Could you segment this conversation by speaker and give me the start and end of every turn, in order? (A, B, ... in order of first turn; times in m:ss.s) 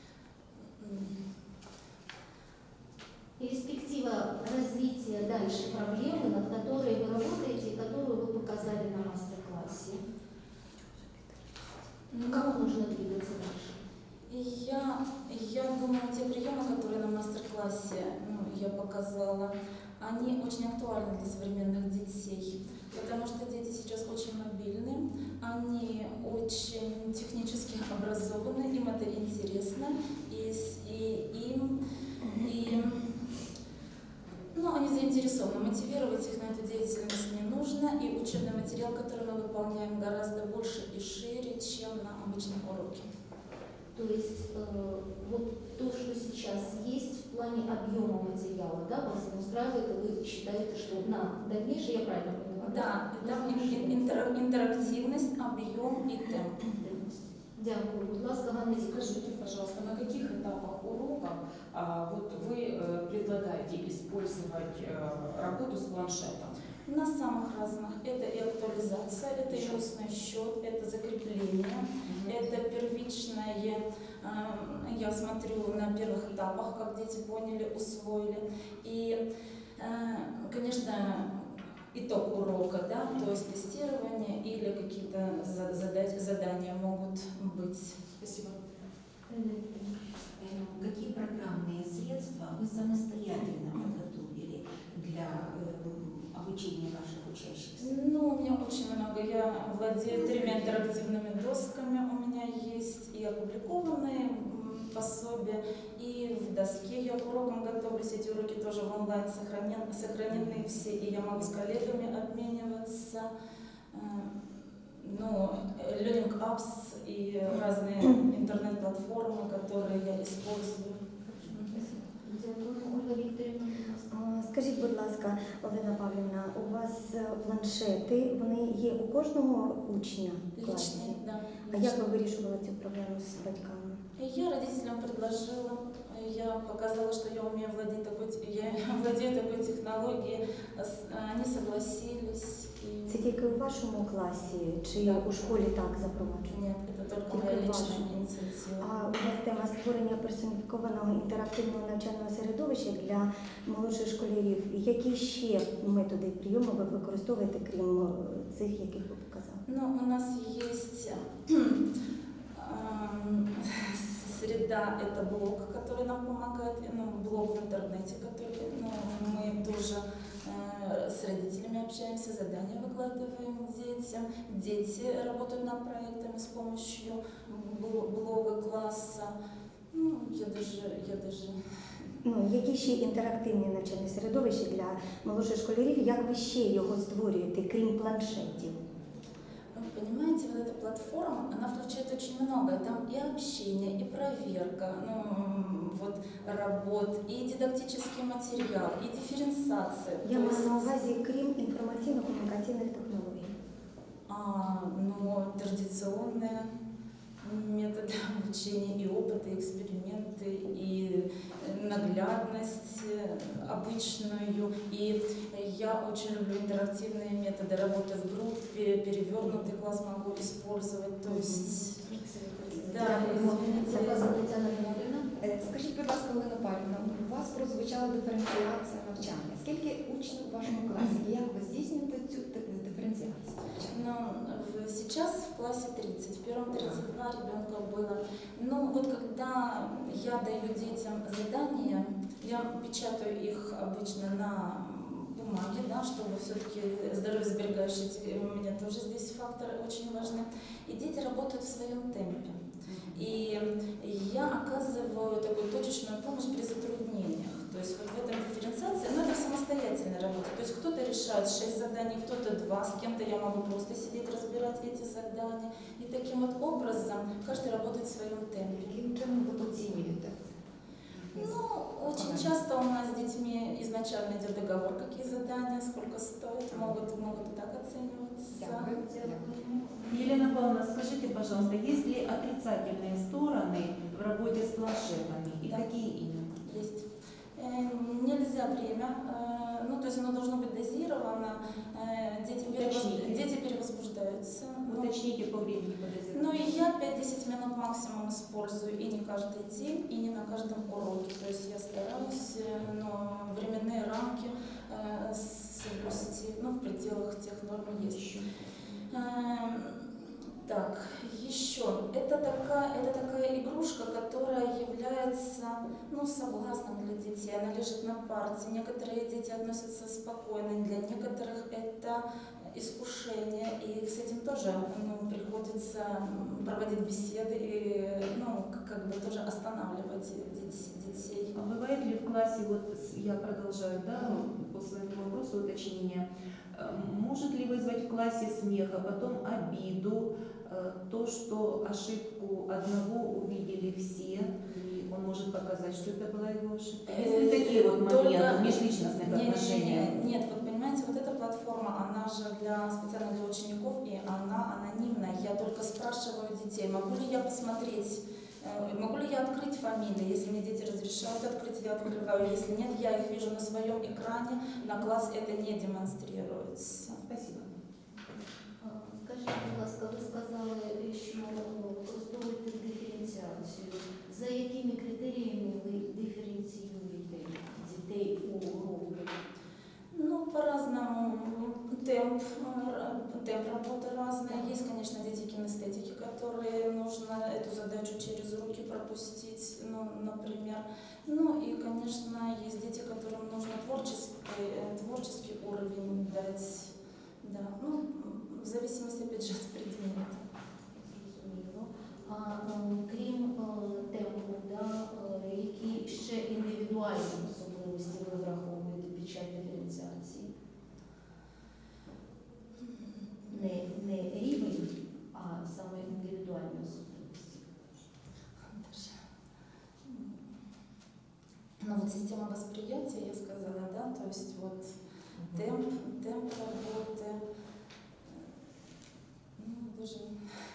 0:00.8-0:01.1 A
0:03.4-0:10.0 B
0:12.1-0:12.6 A
0:12.2-0:13.8 B
0:14.3-0:31.8 A
0:32.2-0:32.7 C
0:32.4-0:33.2 A
0:34.5-0:43.1 A
0:43.9-0:54.2 B
0:52.6-0:56.6 A
0:56.7-0:59.2 B
0:58.8-1:06.6 D
1:06.8-1:19.2 A
1:12.1-1:12.3 D
1:19.8-1:28.2 A
1:28.2-1:28.5 E
1:29.3-1:29.9 B
1:30.4-1:37.7 F
1:33.4-1:33.9 E
1:36.0-1:37.0 E
1:37.8-1:53.3 A
1:53.9-1:54.3 A
1:55.0-2:01.9 A
2:01.9-2:04.1 B
2:04.1-2:14.0 C
2:10.6-2:12.0 A
2:14.2-2:23.3 A
2:23.1-2:26.6 C
2:26.5-2:28.9 A
2:27.3-2:28.1 C
2:28.8-2:39.6 C
2:39.7-2:41.8 A
2:42.5-2:59.3 A
2:59.9-3:01.6 A
3:02.2-3:08.8 C
3:09.7-3:21.0 A
3:20.2-3:23.5 C
3:24.3-3:26.7 A
3:27.4-3:42.0 A
3:41.3-3:41.7 C
3:42.7-3:45.3 B
3:42.8-3:44.3 A
3:42.9-3:43.4 C
3:45.4-3:53.9 G
3:53.8-4:12.6 A
4:13.1-4:28.9 A
4:28.8-4:30.4 G
4:31.1-4:32.5 G
4:31.4-4:38.9 A
4:38.5-4:39.5 G
4:39.0-4:40.4 B
4:40.1-4:46.6 E
4:46.6-4:47.0 A
4:47.6-4:55.2 A
4:52.7-4:53.4 E
4:54.9-4:56.8 E
4:56.3-5:08.2 A
5:08.0-5:08.4 E
5:09.1-5:10.1 A
5:10.6-5:31.5 A
5:31.5-5:50.1 E
5:47.1-6:07.2 A
6:07.2-6:07.7 E
6:08.8-6:19.4 B
6:20.1-6:40.4 A
6:40.9-6:50.5 B
6:53.5-6:57.7 B
6:58.7-6:59.2 A
7:00.1-7:00.3 A
7:01.8-7:04.9 A
7:05.5-7:07.4 A
7:09.6-7:10.4 A